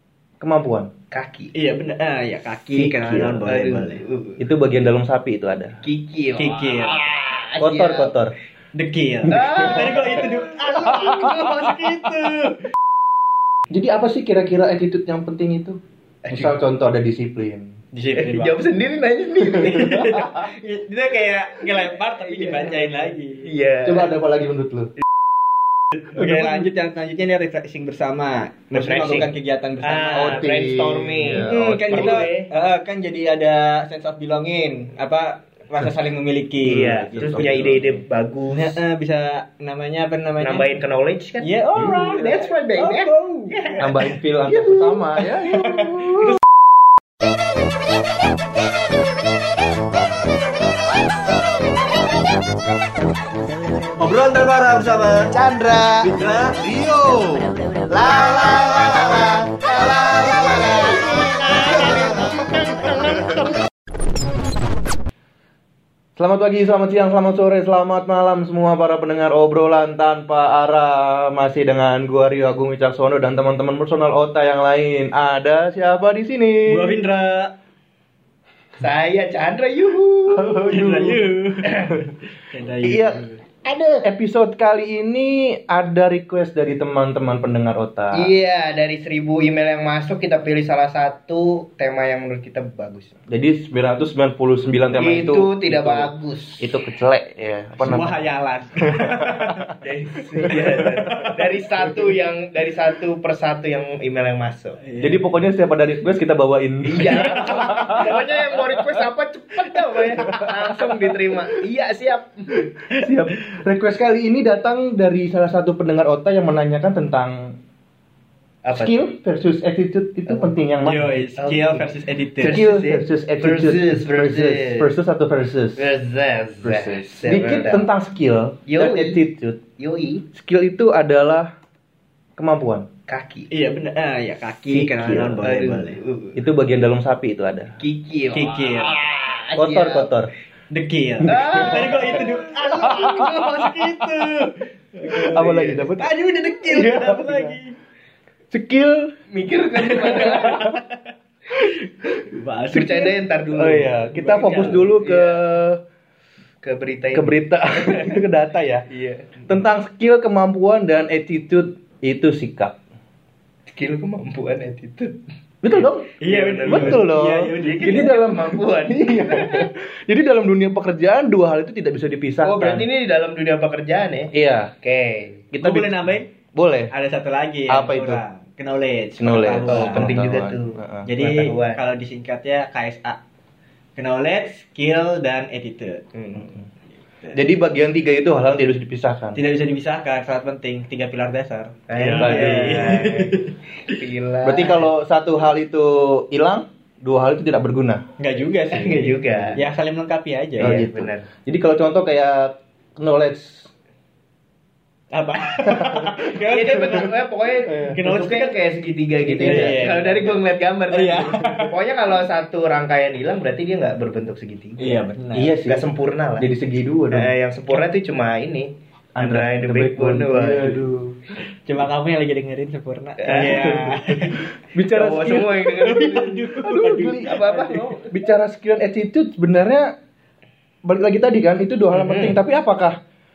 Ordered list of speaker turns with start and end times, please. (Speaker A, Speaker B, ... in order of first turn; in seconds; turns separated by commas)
Speaker A: 0.4-0.9, Speaker B: 1.1-1.5, Speaker C: 1.6-4.0, Speaker A: 2.7-3.5, Speaker B: 3.5-4.4, Speaker A: 4.4-5.8, Speaker B: 5.8-8.1, Speaker C: 6.4-7.0, Speaker A: 7.6-8.3, Speaker C: 8.7-12.6, Speaker B: 9.3-11.7, Speaker A: 9.8-10.1, Speaker A: 10.8-11.5, Speaker A: 13.7-15.8, Speaker B: 16.2-16.6, Speaker A: 16.3-17.8, Speaker C: 17.9-18.5, Speaker B: 18.2-20.2, Speaker C: 19.5-23.4, Speaker A: 19.7-20.2, Speaker B: 22.2-24.1, Speaker A: 23.9-24.9, Speaker C: 26.1-30.4, Speaker A: 26.2-26.5, Speaker B: 28.7-32.5, Speaker A: 30.2-32.2, Speaker C: 31.5-37.5, Speaker B: 36.6-38.8, Speaker A: 36.7-38.0, Speaker C: 38.5-40.7, Speaker B: 40.4-43.9, Speaker C: 41.4-43.9, Speaker A: 43.8-46.4, Speaker B: 44.5-45.2, Speaker C: 45.5-46.4, Speaker B: 54.0-63.5, Speaker C: 54.1-54.7, Speaker A: 66.2-77.0, Speaker C: 76.7-77.5, Speaker B: 78.8-80.9, Speaker A: 80.3-81.2, Speaker C: 80.6-83.4, Speaker B: 81.7-82.0, Speaker A: 82.8-88.3, Speaker B: 88.1-93.2, Speaker A: 93.3-98.2, Speaker B: 95.0-96.7, Speaker C: 97.8-99.7, Speaker A: 98.8-99.7, Speaker B: 99.8-104.8, Speaker A: 100.5-101.4, Speaker C: 104.8-105.2, Speaker A: 105.0-108.8, Speaker B: 106.8-112.7, Speaker C: 107.2-107.9, Speaker A: 110.2-111.0, Speaker A: 112.8-117.6, Speaker B: 118.6-119.0, Speaker A: 118.7-121.2, Speaker B: 120.3-120.5, Speaker C: 120.8-122.6, Speaker B: 121.4-121.9, Speaker B: 122.4-124.9, Speaker A: 122.4-125.8, Speaker B: 125.8-127.9, Speaker A: 126.6-129.6, Speaker B: 128.7-129.2, Speaker B: 129.8-130.2, Speaker A: 130.3-131.5, Speaker A: 132.4-132.9, Speaker B: 133.1-133.5, Speaker C: 133.5-136.0, Speaker A: 134.7-135.4, Speaker B: 135.4-136.4, Speaker A: 136.4-137.8, Speaker B: 137.8-140.1, Speaker C: 138.3-139.0, Speaker A: 139.6-140.3, Speaker C: 140.7-147.8, Speaker A: 141.2-142.3, Speaker B: 141.2-143.8, Speaker A: 142.8-143.3, Speaker B: 145.1-145.9, Speaker A: 145.3-146.1, Speaker A: 146.7-147.6, Speaker A: 148.5-149.2, Speaker B: 149.3-150.8, Speaker C: 149.9-153.2, Speaker A: 150.2-150.8, Speaker B: 152.7-155.4, Speaker A: 153.6-155.8, Speaker C: 153.9-154.8, Speaker B: 156.6-158.2, Speaker A: 157.1-158.8, Speaker B: 158.9-159.4, Speaker A: 159.5-162.8, Speaker B: 163.7-165.2, Speaker A: 165.6-166.1, Speaker C: 166.2-168.1, Speaker B: 166.2-169.7, Speaker A: 166.7-172.9, Speaker B: 172.4-175.4, Speaker A: 174.3-174.7, Speaker A: 175.5-176.9, Speaker C: 175.6-176.3, Speaker C: 176.9-180.1, Speaker A: 177.7-178.2, Speaker A: 179.2-181.1, Speaker B: 179.5-181.8, Speaker C: 181.1-183.2, Speaker C: 184.0-186.1, Speaker B: 186.2-186.5, Speaker A: 187.3-189.4, Speaker C: 189.3-194.0, Speaker B: 191.9-194.9, Speaker A: 192.2-193.0, Speaker A: 194.4-198.1, Speaker C: 198.2-200.8, Speaker B: 198.7-199.6, Speaker B: 200.6-201.3, Speaker A: 200.6-203.7, Speaker C: 205.1-207.1, Speaker A: 205.7-206.2, Speaker B: 206.5-216.5, Speaker A: 207.7-208.0, Speaker C: 207.8-208.6, Speaker C: 209.3-210.4, Speaker A: 209.3-209.8, Speaker C: 210.9-211.7, Speaker C: 214.8-215.5, Speaker A: 215.3-215.8, Speaker A: 216.4-217.3, Speaker B: 217.1-220.8, Speaker A: 219.2-221.2, Speaker C: 221.5-224.5, Speaker B: 223.2-224.0, Speaker A: 223.4-225.8, Speaker B: 224.9-226.6, Speaker C: 225.7-228.0, Speaker A: 226.6-227.5, Speaker B: 227.1-228.1, Speaker A: 228.1-229.9, Speaker A: 230.8-233.0, Speaker B: 231.9-232.4